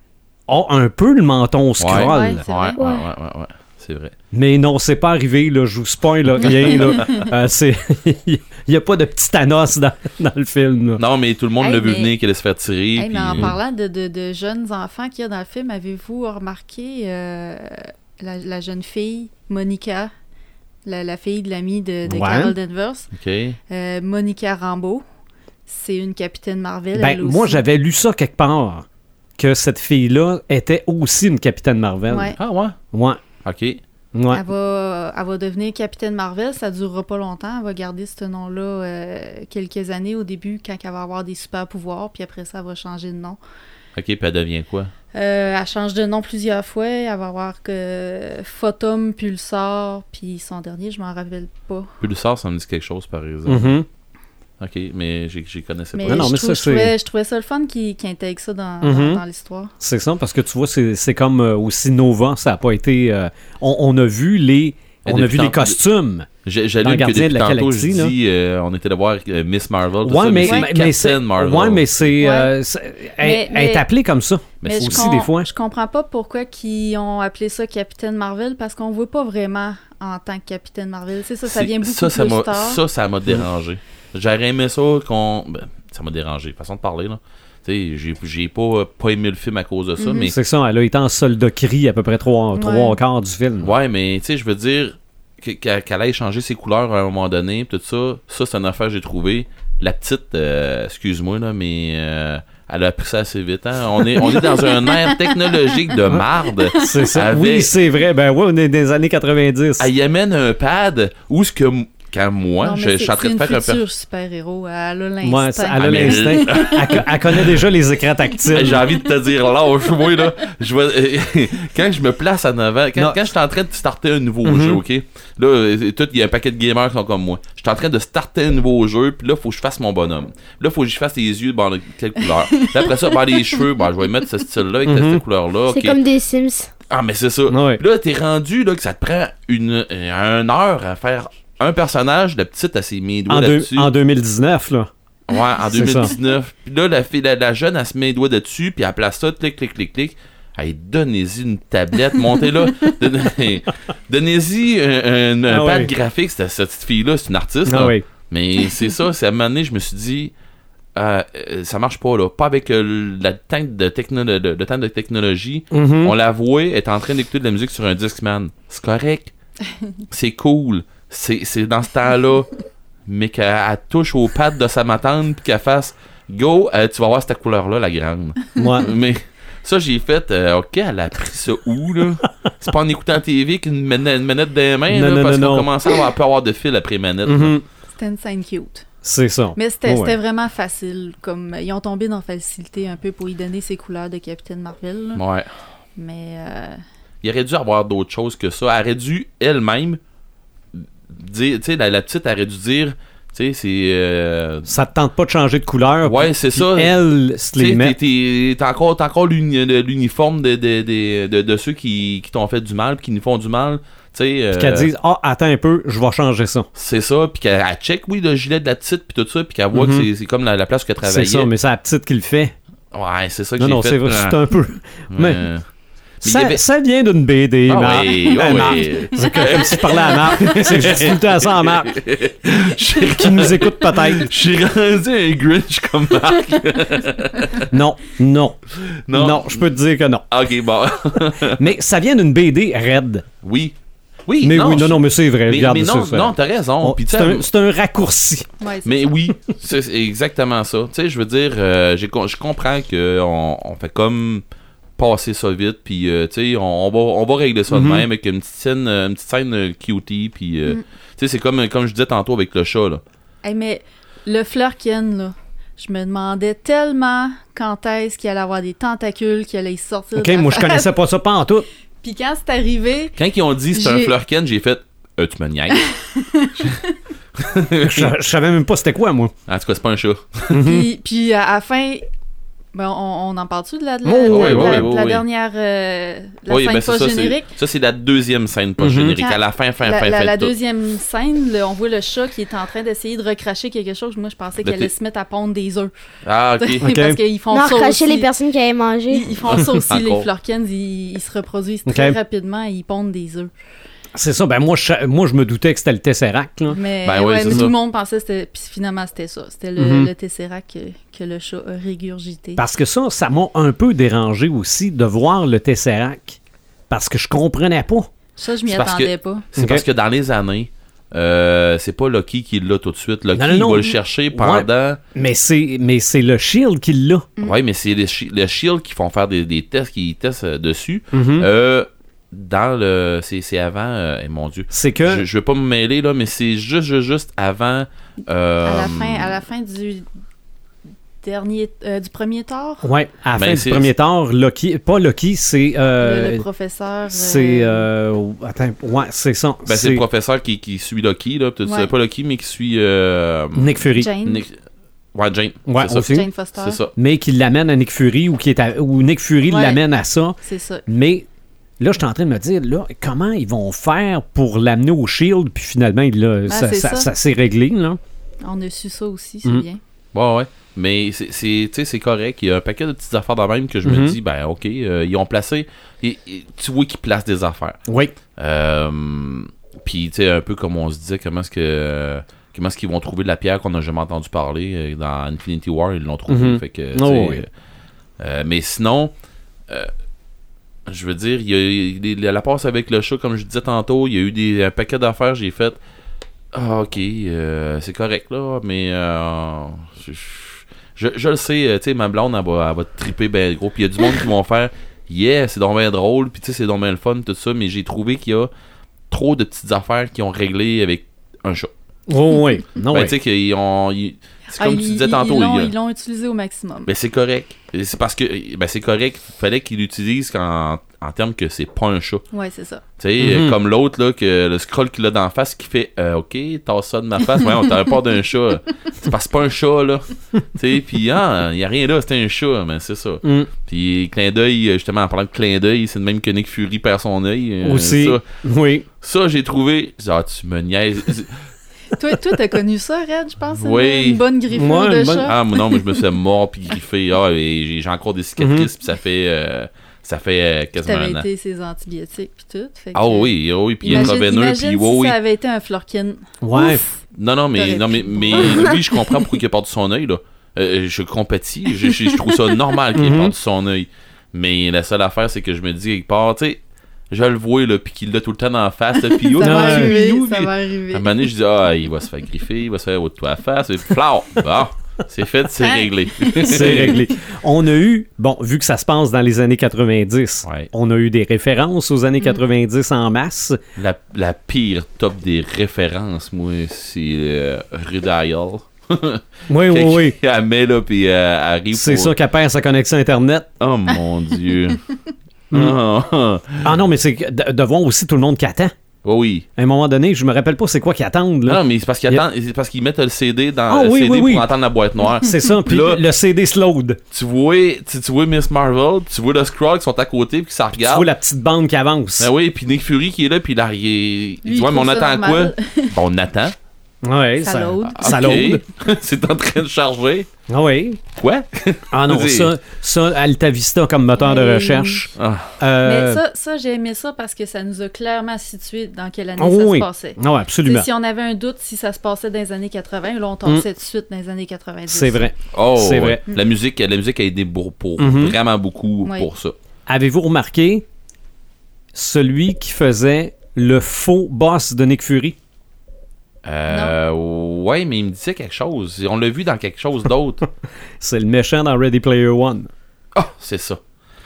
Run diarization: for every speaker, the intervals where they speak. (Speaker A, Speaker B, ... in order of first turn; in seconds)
Speaker A: 0.5-2.4, 4.3-11.0, 22.1-22.5, 26.9-28.8, 29.4-32.4, 32.9-33.2, 34.1-34.4, 53.5-53.9, 56.0-56.9, 58.8-59.2, 59.8-66.3, 66.8-68.1, 70.0-75.5, 90.2-93.7, 106.1-109.9, 115.2-118.9, 124.4-124.8, 134.8-135.2, 137.5-137.8, 143.3-144.9, 145.7-146.1, 155.5-155.9, 157.7-158.0, 165.7-166.1, 178.6-178.9, 184.9-185.7, 187.2-187.6, 189.0-190.2, 204.7-207.9, 214.5-216.7, 219.7-220.1, 221.0-222.5, 223.6-225.4, 226.2-232.0, 233.1-234.3, 237.7-238.6, 239.1-240.2, 241.4-243.2, 244.4-248.4, 257.7-258.1, 270.2-271.6, 277.8-279.3, 280.5-280.9, 284.0-284.9, 288.8-289.2, 296.8-297.2, 301.9-302.2, 304.1-306.8, 309.8-310.1, 312.6-316.4, 316.9-318.1, 319.6-319.8, 323.3-327.2, 331.1-331.5, 334.7-335.2, 342.8-346.4, 347.1-350.0, 353.6-354.1, 355.6-356.3, 356.9-361.2, 361.8-368.0, 373.8-374.2, 377.9-378.1, 386.3-387.4, 412.1-413.1, 423.2-423.5, 433.2-433.5, 437.6-438.9, 444.5-445.3, 448.4-448.7, 456.4-456.8, 462.9-463.3, 469.4-469.9, 476.4-483.6, 489.5-490.1, 491.7-493.5, 495.5-495.8, 496.6-498.7, 499.6-502.2, 503.7-504.5, 505.2-507.0, 510.7-512.3, 517.0-518.6, 520.5-521.0, 521.9-526.2, 529.4-530.9, 534.9-536.2, 538.0-538.4, 539.9-540.8, 541.9-545.4, 551.0-552.7
Speaker B: 1.8-4.1, 11.0-13.6, 23.1-23.6, 32.4-32.8, 33.4-33.8, 44.0-44.9, 52.0-53.8, 54.6-56.4, 65.0-65.8, 66.4-72.0, 74.6-75.1, 81.4-90.3, 93.6-107.7, 109.8-113.8, 115.8-117.7, 118.5-136.0, 136.9-143.9, 145.3-160.3, 160.9-169.3, 170.1-172.5, 173.1-187.5, 195.1-195.5, 197.2-200.0, 200.7-204.7, 206.0-206.9, 207.6-214.9, 216.7-221.5, 222.9-224.4, 225.1-225.6, 226.2-226.6, 227.7-237.7, 238.8-239.7, 240.3-241.7, 243.4-247.5, 248.8-254.4, 255.0-263.0, 273.2-275.9, 277.4-278.1, 279.5-280.6, 284.3-285.2, 286.5-290.5, 294.6-294.9, 296.2-296.9, 299.5-300.3, 307.0-307.7, 318.6-325.0, 327.4-339.4, 343.3-343.9, 349.6-354.6, 355.1-356.9, 370.1-377.8, 378.4-387.5, 388.2-389.1, 390.9-395.8, 396.5-408.5, 409.1-411.7, 412.9-415.7, 416.9-422.2, 423.0-438.2, 439.0-441.4, 443.6-444.2, 445.2-451.3, 452.9-455.2, 457.1-477.0, 480.4-480.7, 483.8-492.2, 493.6-494.8, 495.5-496.7, 499.0-499.4, 501.4-506.0, 507.1-511.1, 512.2-516.5, 517.9-520.3, 521.2-522.5, 525.1-525.5, 535.5-539.5, 546.4-550.4, 553.1-553.8
Speaker C: 1.9-2.8, 6.4-7.3, 11.6-12.1, 12.9-20.1, 20.8-23.1, 23.7-25.0, 25.7-27.6, 32.1-32.4, 34.3-43.4, 45.1-51.9, 55.9-59.7, 70.4-70.7, 72.2-72.5, 73.2-73.8, 74.6-82.8, 90.0-90.3, 92.5-93.0, 104.2-106.0, 106.6-107.0, 112.6-117.1, 132.6-133.4, 188.0-188.8, 189.6-195.2, 195.9-196.8, 248.6-249.1, 263.4-270.9, 272.0-273.2, 273.7-274.1, 275.8-276.8, 280.6-282.1, 282.7-287.5, 289.2-295.9, 296.6-298.3, 299.1-303.5, 306.7-312.6, 318.4-319.5, 338.6-340.1, 341.2-342.9, 346.0-347.9, 351.6-351.9, 353.9-354.4, 356.0-356.8, 359.5-359.8, 360.4-360.8, 366.5-367.1, 368.4-369.8, 414.5-416.9, 422.3-422.8, 441.9-445.9, 450.8-457.0, 457.5-459.1, 469.1-471.2, 475.6-476.9, 514.4-516.0, 517.4-518.6, 524.2-525.1, 525.8-535.2, 546.7-547.0
Speaker D: 2.8-3.0, 135.7-136.7, 297.5-299.4